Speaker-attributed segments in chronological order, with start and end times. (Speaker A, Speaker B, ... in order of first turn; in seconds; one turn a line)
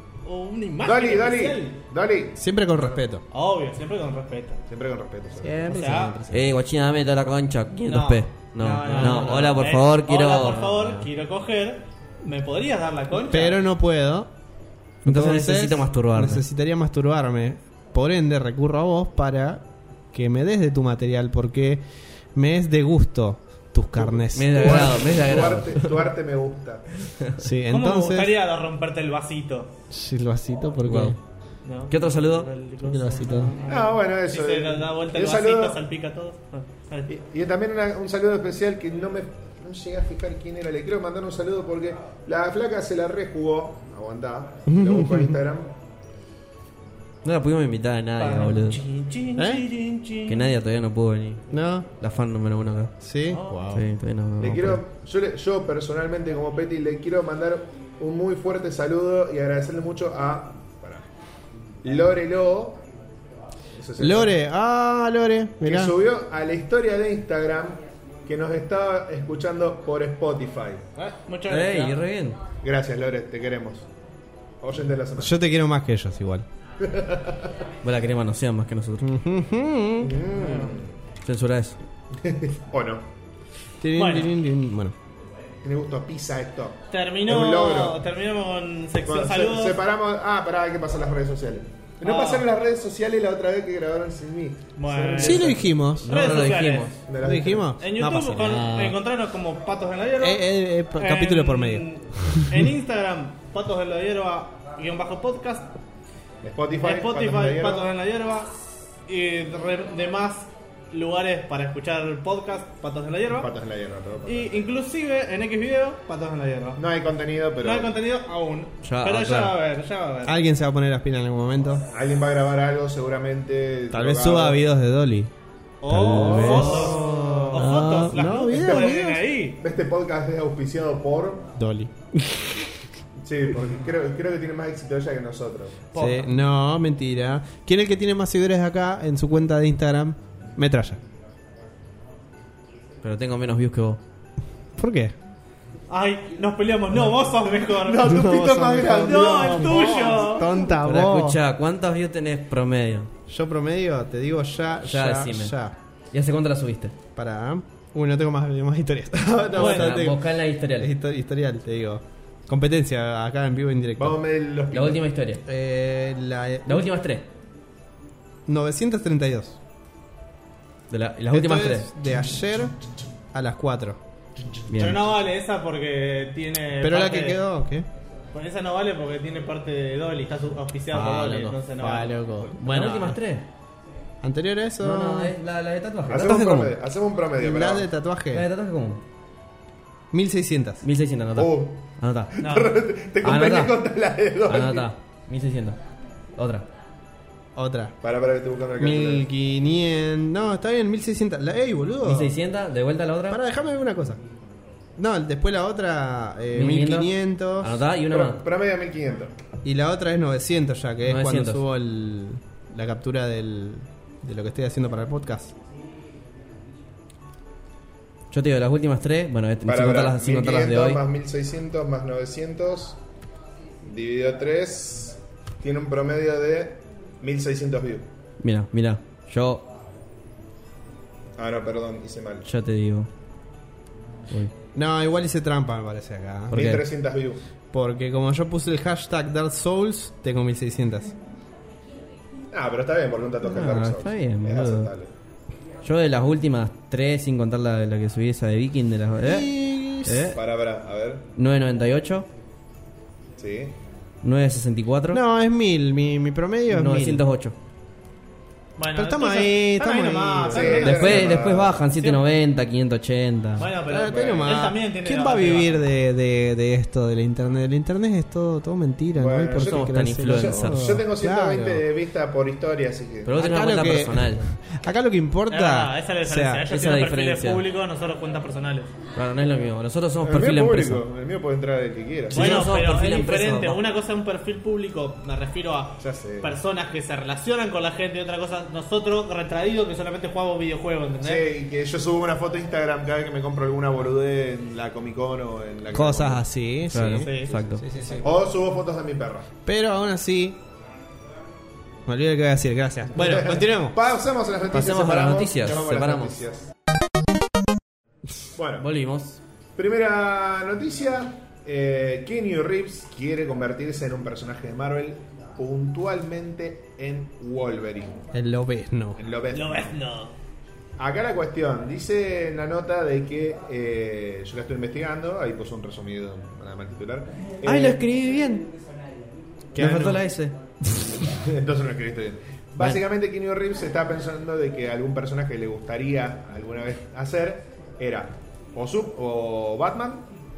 Speaker A: 0.2-1.8
Speaker B: 0.8-3.0
Speaker C: 2.4-3.2
Speaker A: 3.3-4.6
Speaker B: 4.7-5.7
Speaker C: 5.4-6.5
Speaker A: 5.6-6.2
Speaker D: 6.3-11.1
Speaker A: 7.9-13.6
Speaker C: 8.9-9.2
Speaker C: 13.2-14.3
Speaker C: 15.0-21.8
Speaker D: 15.0-16.4
Speaker C: 22.3-25.0
Speaker B: 23.9-26.9
Speaker D: 24.3-26.1
Speaker D: 27.1-27.4
Speaker C: 27.4-28.3
Speaker A: 27.7-29.7
Speaker C: 29.9-31.2
Speaker D: 30.8-31.1
Speaker A: 31.6-37.1
Speaker D: 31.9-32.5
Speaker C: 32.8-33.5
Speaker B: 33.7-35.8
Speaker B: 37.1-45.7
Speaker C: 44.7-45.4
Speaker D: 47.2-48.8
Speaker A: 48.2-50.5
Speaker C: 49.4-49.6
Speaker D: 50.3-52.9
Speaker C: 51.5-51.9
Speaker C: 53.0-53.8
Speaker A: 53.3-53.6
Speaker D: 53.7-54.8
Speaker B: 54.4-61.1
Speaker B: 61.8-62.8
Speaker B: 63.7-64.3
Speaker C: 64.0-65.9
Speaker B: 65.6-70.9
Speaker A: 71.0-72.0
Speaker D: 71.5-72.4
Speaker B: 72.6-73.9
Speaker B: 74.6-75.4
Speaker C: 75.2-76.5
Speaker B: 76.8-77.5
Speaker D: 77.8-79.1
Speaker C: 79.0-80.2
Speaker B: 80.0-80.9
Speaker A: 80.3-80.8
Speaker D: 81.2-81.8
Speaker B: 82.2-83.0
Speaker C: 83.8-84.9
Speaker A: 83.9-84.3
Speaker B: 85.6-88.0
Speaker A: 86.9-89.8
Speaker B: 89.0-95.7
Speaker A: 92.0-92.5
Speaker A: 94.8-97.0
Speaker C: 95.2-96.1
Speaker D: 96.0-97.0
Speaker B: 97.0-97.7
Speaker C: 97.2-99.0
Speaker A: 97.8-105.7
Speaker C: 100.2-102.7
Speaker B: 106.4-107.9
Speaker A: 106.8-113.5
Speaker B: 113.3-114.6
Speaker A: 114.2-116.8
Speaker B: 116.8-118.0
Speaker A: 117.6-120.4
Speaker D: 118.8-119.5
Speaker C: 120.2-121.8
Speaker B: 121.9-124.6
Speaker C: 123.9-125.3
Speaker A: 125.8-129.6
Speaker C: 125.9-129.2
Speaker D: 126.0-127.0
Speaker B: 126.1-127.5
Speaker B: 128.5-129.1
Speaker B: 129.6-131.5
Speaker C: 131.6-132.7
Speaker B: 133.2-135.9
Speaker A: 135.9-136.3
Speaker C: 135.9-141.0
Speaker D: 143.0-144.0
Speaker C: 144.8-145.1
Speaker A: 145.9-148.2
Speaker B: 147.8-150.4
Speaker C: 148.0-151.4
Speaker A: 148.8-150.6
Speaker D: 150.8-153.1
Speaker C: 153.3-155.7
Speaker D: 154.8-155.5
Speaker D: 156.1-156.9
Speaker C: 157.1-164.2
Speaker D: 159.5-160.9
Speaker A: 159.6-159.9
Speaker B: 164.0-165.1
Speaker D: 164.7-165.4
Speaker C: 165.4-166.9
Speaker D: 166.6-167.3
Speaker C: 168.5-169.6
Speaker D: 170.9-171.9
Speaker C: 171.3-172.8
Speaker C: 173.3-174.0
Speaker D: 174.7-175.1
Speaker A: 174.8-177.4
Speaker C: 176.8-177.8
Speaker A: 178.3-182.5
Speaker C: 180.9-183.2
Speaker D: 182.6-183.4
Speaker C: 184.2-185.3
Speaker D: 184.8-186.5
Speaker B: 186.1-187.9
Speaker C: 186.2-186.8
Speaker C: 187.3-188.4
Speaker D: 188.3-189.0
Speaker C: 190.1-190.8
Speaker D: 190.8-192.3
Speaker B: 191.3-194.9
Speaker A: 192.4-192.8
Speaker D: 193.2-193.8
Speaker D: 194.4-195.8
Speaker D: 196.3-196.7
Speaker C: 197.6-197.9
Speaker B: 198.0-199.3
Speaker C: 198.8-202.3
Speaker D: 202.0-203.4
Speaker C: 203.3-204.2
Speaker C: 205.0-207.8
Speaker D: 206.5-208.4
Speaker B: 208.1-209.3
Speaker C: 209.6-215.5
Speaker D: 211.0-211.6
Speaker D: 218.3-221.0
Speaker B: 219.6-223.0
Speaker B: 223.8-228.1
Speaker D: 228.4-229.7
Speaker B: 231.4-232.4
Speaker D: 232.4-233.1
Speaker C: 234.7-236.7
Speaker D: 236.5-236.8
Speaker B: 236.5-237.4
Speaker C: 237.7-241.1
Speaker B: 242.5-245.1
Speaker D: 243.4-244.9
Speaker D: 245.8-249.5
Speaker C: 249.2-250.4
Speaker D: 250.0-250.4
Speaker B: 250.3-251.2
Speaker D: 251.3-252.3
Speaker B: 253.4-253.8
Speaker D: 254.2-255.2
Speaker C: 255.1-257.2
Speaker D: 256.7-257.5
Speaker A: 258.8-261.4
Speaker C: 258.9-261.3
Speaker B: 260.5-261.8
Speaker D: 260.8-263.7
Speaker A: 261.9-262.2
Speaker A: 263.6-265.8
Speaker C: 263.9-271.9
Speaker B: 264.0-264.6
Speaker B: 269.2-273.4
Speaker D: 269.5-271.0
Speaker D: 273.2-274.4
Speaker C: 273.3-276.7
Speaker A: 275.5-278.9
Speaker D: 276.7-277.6
Speaker D: 279.1-281.0
Speaker B: 280.2-282.6
Speaker D: 282.3-283.8
Speaker A: 282.3-291.4
Speaker B: 286.0-286.6
Speaker B: 291.2-296.4
Speaker C: 295.9-298.4
Speaker D: 296.9-297.9
Speaker A: 297.1-297.5
Speaker B: 298.1-299.5
Speaker C: 299.6-300.6
Speaker C: 302.1-304.0
Speaker B: 303.1-306.7
Speaker D: 304.7-306.4
Speaker B: 308.5-308.9
Speaker D: 308.8-309.4
Speaker B: 309.8-318.3
Speaker C: 318.3-319.2
Speaker B: 319.2-319.9
Speaker A: 319.5-320.4
Speaker B: 321.0-328.0
Speaker D: 327.6-328.7
Speaker C: 329.7-330.2
Speaker D: 329.7-330.6
Speaker B: 331.3-340.3